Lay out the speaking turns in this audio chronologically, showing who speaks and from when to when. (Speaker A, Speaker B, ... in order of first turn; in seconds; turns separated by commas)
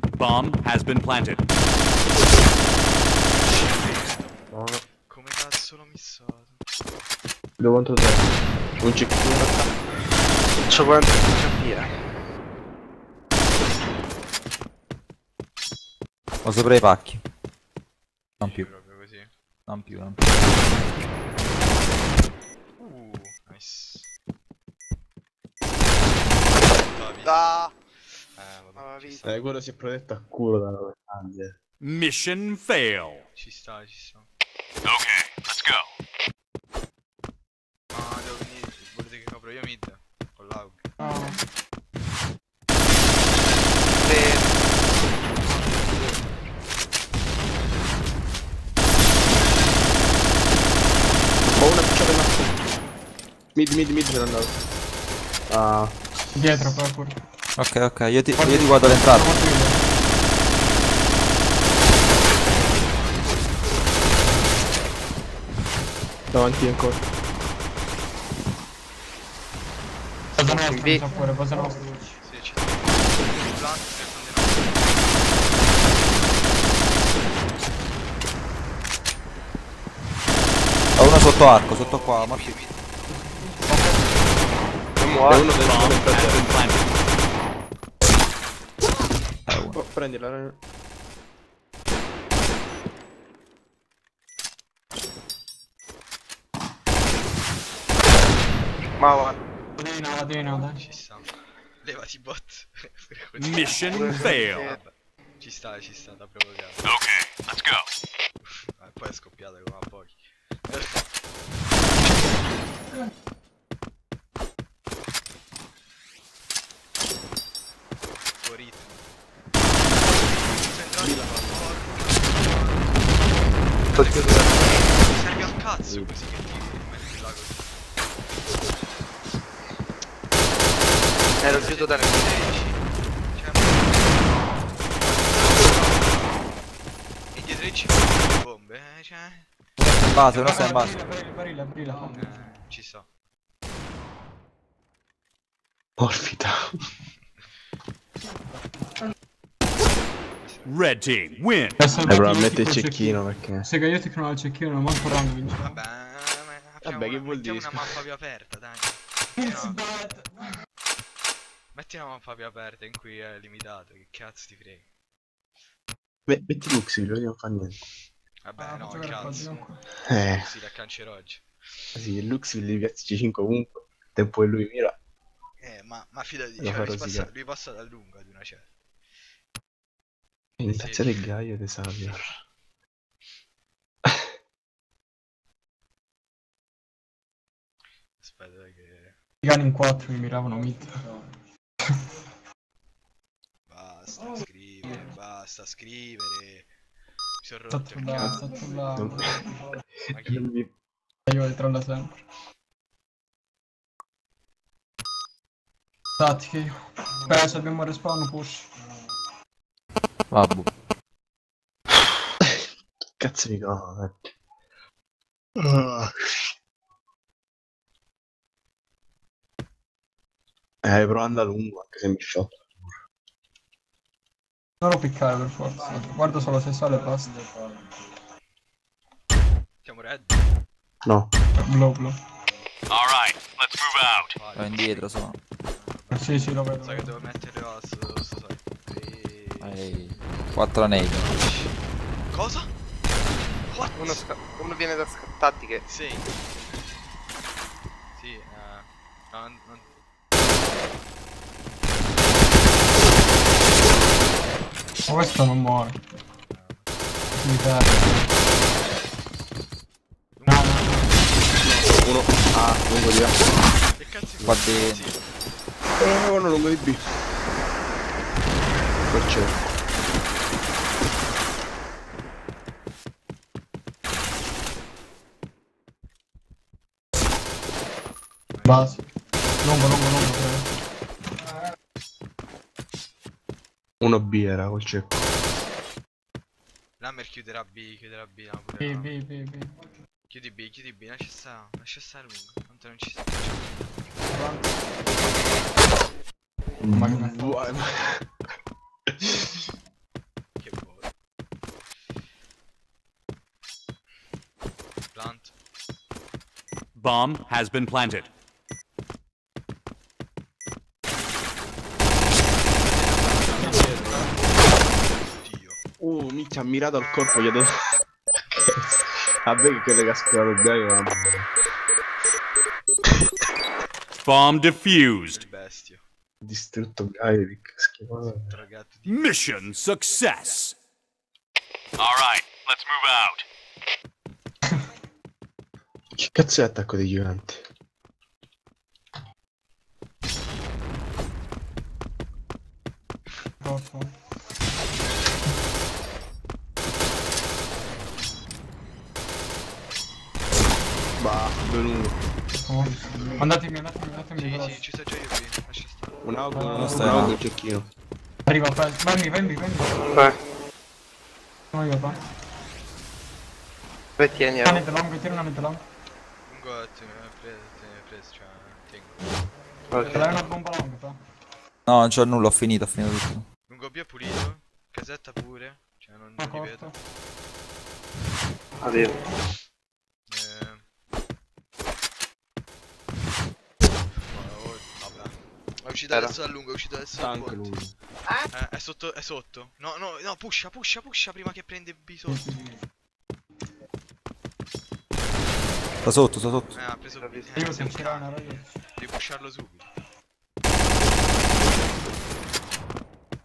Speaker A: 0.1-1.4, Speaker B: 3.3-6.6, Speaker C: 4.5-4.8, Speaker C: 7.6-8.3, Speaker C: 8.8-9.5, Speaker D: 9.3-9.7, Speaker D: 10.7-11.9, Speaker E: 16.4-17.2, Speaker E: 18.4-18.7, Speaker B: 18.4-19.3, Speaker E: 19.7-20.4, Speaker B: 22.8-24.1, Speaker B: 26.5-27.4, Speaker D: 27.2-27.8, Speaker B: 28.4-29.4, Speaker D: 28.8-29.2, Speaker C: 29.2-31.6, Speaker A: 31.8-33.2, Speaker B: 33.4-34.3, Speaker B: 37.9-40.8, Speaker F: 41.0-41.4, Speaker D: 44.0-44.8, Speaker D: 45.7-46.1, Speaker C: 51.5-52.3, Speaker C: 53.5-54.6, Speaker C: 55.5-56.0, Speaker F: 56.3-57.1, Speaker E: 57.6-59.3, Speaker F: 58.4-59.8, Speaker B: 62.5-63.9, Speaker C: 66.3-67.0, Speaker F: 70.3-72.2, Speaker D: 70.4-71.0, Speaker B: 72.2-75.9, Speaker E: 81.0-82.6, Speaker B: 81.2-83.1, Speaker F: 83.1-84.4, Speaker D: 85.0-85.6, Speaker C: 85.3-86.5, Speaker A: 85.6-87.0, Speaker E: 89.5-89.8, Speaker C: 89.7-90.6, Speaker D: 99.0-99.4, Speaker F: 99.8-100.8, Speaker B: 100.8-101.3, Speaker B: 101.8-106.9, Speaker A: 103.4-104.7, Speaker D: 103.8-104.8, Speaker B: 108.8-111.1, Speaker B: 118.4-119.1, Speaker B: 119.8-127.7, Speaker C: 121.0-121.7, Speaker D: 123.9-125.1, Speaker D: 131.4-132.5, Speaker B: 131.4-136.5, Speaker B: 137.3-139.5, Speaker F: 139.8-142.5, Speaker E: 140.0-140.9, Speaker B: 142.1-143.1, Speaker C: 146.0-146.8, Speaker B: 150.2-150.8, Speaker A: 150.7-151.8, Speaker F: 151.8-155.8, Speaker C: 152.1-153.7, Speaker B: 155.6-159.8, Speaker C: 156.8-158.0, Speaker F: 159.4-160.4, Speaker B: 161.7-164.9, Speaker C: 166.3-167.8, Speaker B: 168.4-169.7, Speaker F: 168.6-169.8, Speaker C: 170.1-170.5, Speaker B: 170.3-171.4, Speaker C: 171.9-174.9, Speaker B: 175.6-178.7, Speaker C: 176.6-177.3, Speaker C: 180.6-182.2, Speaker B: 180.6-181.1, Speaker B: 188.2-189.2, Speaker F: 189.4-190.9, Speaker B: 193.7-196.7, Speaker B: 197.4-198.5, Speaker F: 197.7-199.4, Speaker C: 198.9-199.3, Speaker C: 200.0-200.7, Speaker B: 200.1-200.5, Speaker F: 201.3-202.2, Speaker F: 206.2-208.7, Speaker E: 210.3-210.7, Speaker C: 212.4-214.3, Speaker C: 215.6-216.5, Speaker C: 220.8-223.0, Speaker F: 224.8-227.4, Speaker B: 229.8-230.5, Speaker C: 231.0-231.3, Speaker F: 231.6-232.2, Speaker A: 232.9-234.3, Speaker B: 234.3-235.1, Speaker E: 234.6-235.4, Speaker B: 235.6-239.8, Speaker F: 236.1-237.2, Speaker E: 239.6-241.4, Speaker B: 240.8-241.7, Speaker B: 242.3-242.7, Speaker B: 243.7-244.3, Speaker D: 244.0-245.8, Speaker B: 245.9-246.3, Speaker B: 248.2-249.8, Speaker F: 255.1-256.0, Speaker B: 256.5-256.9, Speaker F: 257.3-258.3, Speaker B: 260.4-260.9, Speaker F: 260.5-261.2, Speaker C: 261.5-263.4, Speaker B: 263.9-265.3, Speaker E: 264.4-265.1, Speaker C: 266.0-267.0, Speaker C: 269.1-269.6, Speaker B: 278.5-278.9, Speaker F: 278.6-279.0, Speaker F: 279.6-280.8, Speaker C: 284.0-285.2, Speaker B: 287.0-289.1, Speaker F: 288.8-289.7, Speaker B: 290.3-294.0, Speaker F: 294.3-294.8, Speaker C: 296.8-298.2, Speaker F: 296.9-297.7, Speaker C: 299.1-299.6, Speaker B: 300.6-301.1, Speaker B: 305.1-305.5, Speaker A: 306.9-308.3, Speaker B: 312.8-315.8, Speaker F: 313.6-314.3, Speaker C: 313.6-314.3, Speaker C: 316.0-317.7, Speaker C: 318.3-321.5, Speaker A: 324.2-325.4, Speaker B: 325.3-326.0, Speaker C: 326.4-328.6, Speaker B: 328.3-329.1, Speaker A: 329.1-330.7, Speaker A: 332.0-333.4, Speaker C: 336.2-337.6, Speaker F: 343.6-344.2, Speaker C: 351.2-352.2, Speaker F: 352.5-354.8, Speaker B: 354.3-356.2, Speaker C: 356.2-357.9, Speaker F: 356.5-357.1, Speaker E: 356.7-357.4, Speaker F: 358.4-360.1, Speaker D: 360.0-360.4, Speaker F: 361.7-362.2, Speaker D: 364.2-364.8, Speaker F: 364.6-365.8, Speaker B: 366.5-369.2, Speaker D: 369.9-370.4, Speaker F: 370.0-371.2, Speaker E: 371.9-373.4, Speaker B: 373.7-376.9, Speaker F: 376.4-376.9, Speaker D: 378.8-379.2, Speaker B: 380.3-380.8, Speaker B: 384.3-387.7, Speaker C: 387.1-387.9, Speaker B: 388.5-392.5, Speaker F: 392.3-392.7, Speaker E: 396.0-396.8, Speaker B: 396.7-399.9, Speaker D: 397.2-397.9, Speaker F: 397.6-398.8